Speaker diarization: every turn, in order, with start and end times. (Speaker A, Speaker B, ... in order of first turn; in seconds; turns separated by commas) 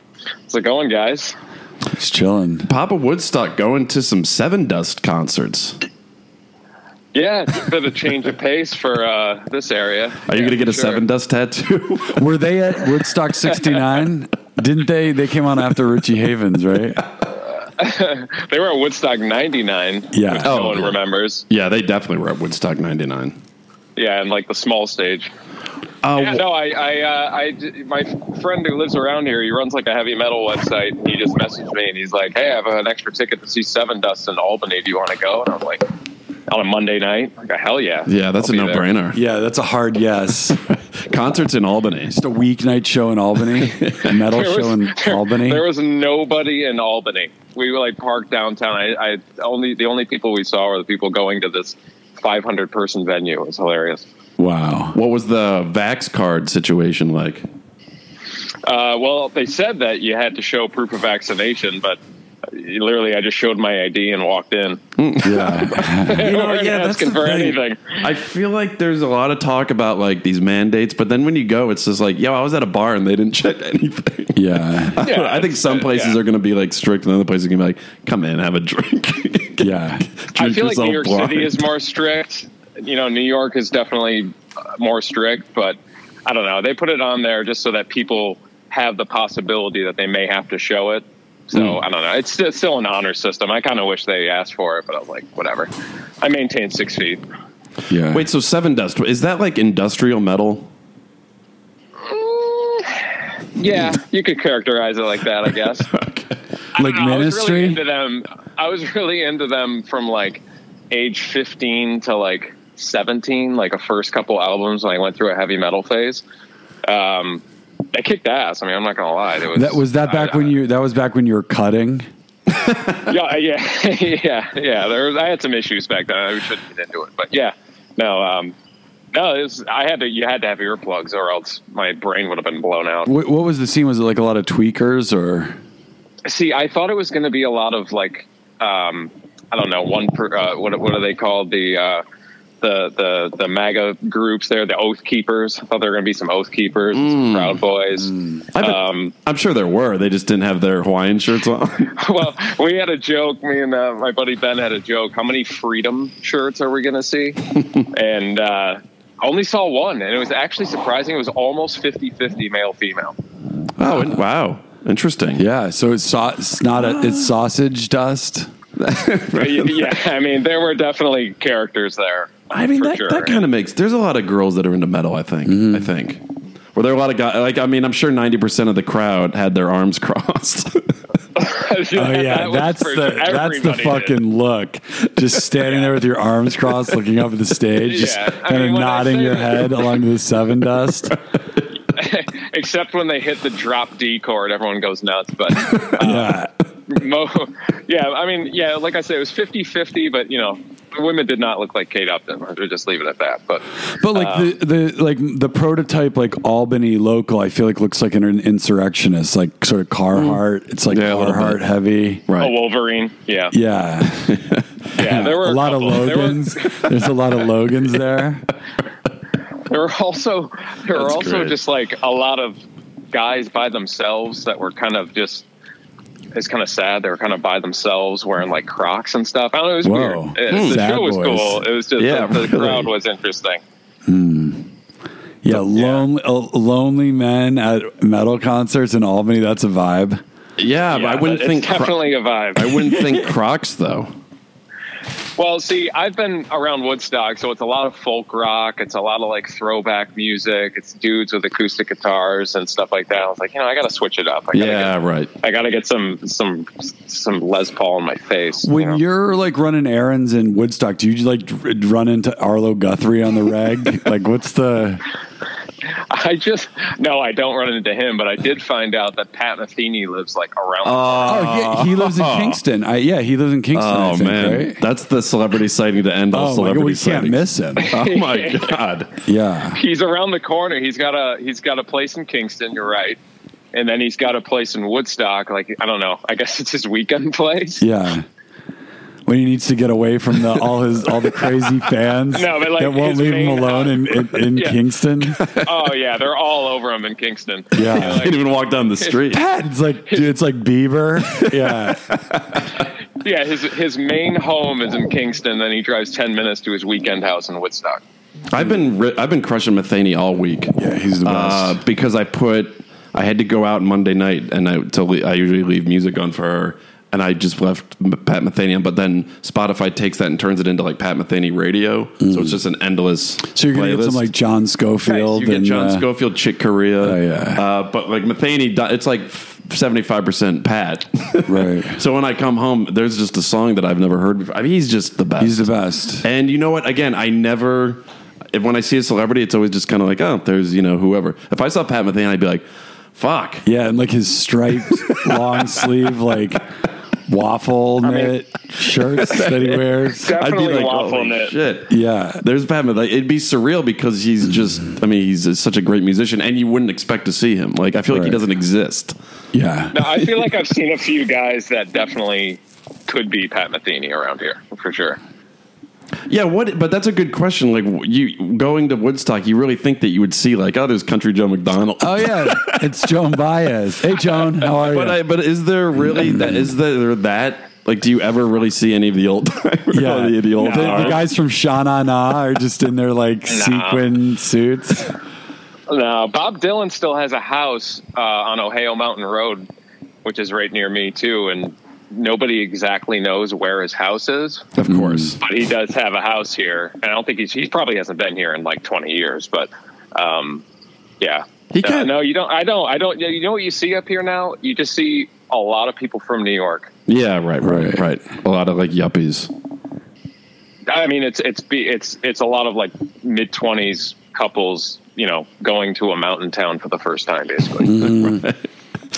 Speaker A: 0.5-1.4, Speaker B: 1.9-2.7, Speaker C: 2.7-5.8, Speaker A: 7.1-11.1, Speaker C: 10.3-12.3, Speaker B: 12.1-17.1, Speaker A: 17.6-21.4, Speaker B: 20.1-20.6, Speaker C: 20.4-21.0, Speaker C: 21.5-23.4, Speaker A: 23.9-25.3, Speaker C: 26.0-26.4, Speaker A: 26.1-35.8, Speaker A: 36.5-38.9, Speaker C: 38.1-39.2, Speaker B: 39.1-40.6, Speaker C: 41.1-42.2, Speaker B: 42.1-45.6, Speaker C: 43.6-44.1, Speaker A: 44.3-54.0, Speaker B: 54.4-55.0, Speaker C: 54.9-57.5, Speaker A: 58.6-64.8, Speaker C: 65.0-81.7, Speaker B: 65.2-66.2, Speaker A: 65.7-68.0, Speaker B: 74.3-75.0, Speaker A: 75.0-76.2, Speaker B: 79.6-80.1, Speaker A: 80.3-95.7, Speaker C: 91.5-91.8, Speaker A: 96.2-97.2, Speaker B: 97.9-98.3, Speaker C: 98.1-100.7, Speaker A: 102.0-105.9, Speaker C: 105.9-106.3, Speaker A: 106.8-116.2, Speaker B: 106.8-107.8, Speaker A: 116.8-120.5, Speaker B: 119.5-122.1, Speaker A: 123.0-128.5, Speaker A: 129.1-133.1, Speaker B: 133.1-135.6, Speaker A: 136.2-142.0, Speaker A: 142.6-149.1, Speaker C: 146.9-147.6, Speaker B: 148.1-148.4, Speaker C: 148.5-151.9, Speaker A: 151.9-163.1, Speaker C: 163.8-165.4, Speaker B: 163.9-164.2, Speaker B: 165.4-168.5, Speaker C: 166.7-167.3, Speaker C: 168.8-169.9, Speaker A: 169.3-173.4, Speaker C: 172.5-176.2, Speaker B: 175.4-175.9, Speaker C: 176.7-180.9, Speaker A: 181.3-184.2, Speaker B: 181.9-191.2, Speaker A: 187.8-189.9, Speaker A: 191.9-204.5, Speaker B: 196.0-196.5, Speaker B: 204.0-212.2, Speaker C: 210.1-211.6, Speaker C: 212.3-212.5, Speaker A: 212.4-213.6, Speaker B: 213.5-214.4, Speaker C: 214.2-214.6, Speaker A: 214.9-216.9, Speaker B: 215.0-218.4, Speaker A: 219.7-222.6, Speaker C: 220.9-221.6, Speaker A: 223.1-225.4, Speaker A: 226.3-233.6, Speaker B: 229.8-231.6, Speaker C: 230.5-230.8, Speaker C: 232.0-232.9, Speaker B: 234.1-234.7, Speaker B: 235.4-240.2, Speaker A: 235.7-236.1, Speaker C: 240.6-242.0, Speaker A: 240.9-243.3, Speaker C: 242.6-244.1, Speaker A: 245.4-259.0, Speaker C: 254.5-255.3, Speaker B: 258.6-265.1, Speaker A: 265.9-272.5, Speaker C: 270.8-272.3, Speaker B: 271.2-274.8, Speaker C: 273.8-277.4, Speaker B: 276.3-277.9, Speaker A: 277.8-278.8, Speaker C: 277.9-279.1, Speaker B: 279.2-279.8, Speaker A: 279.7-283.2, Speaker A: 283.7-287.9, Speaker B: 287.8-288.2, Speaker B: 289.2-295.5, Speaker A: 292.3-294.8, Speaker C: 295.3-295.6, Speaker A: 295.6-298.4, Speaker B: 297.7-298.3, Speaker C: 298.0-299.4, Speaker B: 299.3-302.1, Speaker C: 301.2-302.7, Speaker A: 303.2-308.0, Speaker C: 308.5-324.3, Speaker B: 310.8-311.8, Speaker B: 322.2-322.6, Speaker B: 323.5-326.1, Speaker C: 325.2-335.6, Speaker B: 327.0-327.6, Speaker B: 331.5-332.0, Speaker B: 335.4-336.3, Speaker C: 336.2-343.6, Speaker B: 343.6-346.6, Speaker C: 345.0-345.8, Speaker B: 347.3-350.3, Speaker A: 348.0-348.3, Speaker C: 349.3-349.6, Speaker A: 350.2-351.6, Speaker C: 350.3-359.1, Speaker B: 351.9-352.4, Speaker B: 358.1-358.4, Speaker B: 359.5-360.0, Speaker A: 359.9-365.2, Speaker C: 366.3-373.0, Speaker B: 372.0-375.2, Speaker C: 374.2-381.2, Speaker B: 375.9-376.7, Speaker B: 379.9-385.1, Speaker A: 380.6-381.2, Speaker A: 383.5-384.1, Speaker A: 385.9-389.6, Speaker A: 390.2-394.6, Speaker C: 394.7-395.4, Speaker B: 394.9-395.4, Speaker A: 395.4-400.6, Speaker A: 401.2-406.9, Speaker C: 401.7-402.1, Speaker C: 407.1-409.5, Speaker B: 407.6-408.1, Speaker A: 410.9-418.0, Speaker B: 417.8-418.5, Speaker C: 417.9-418.6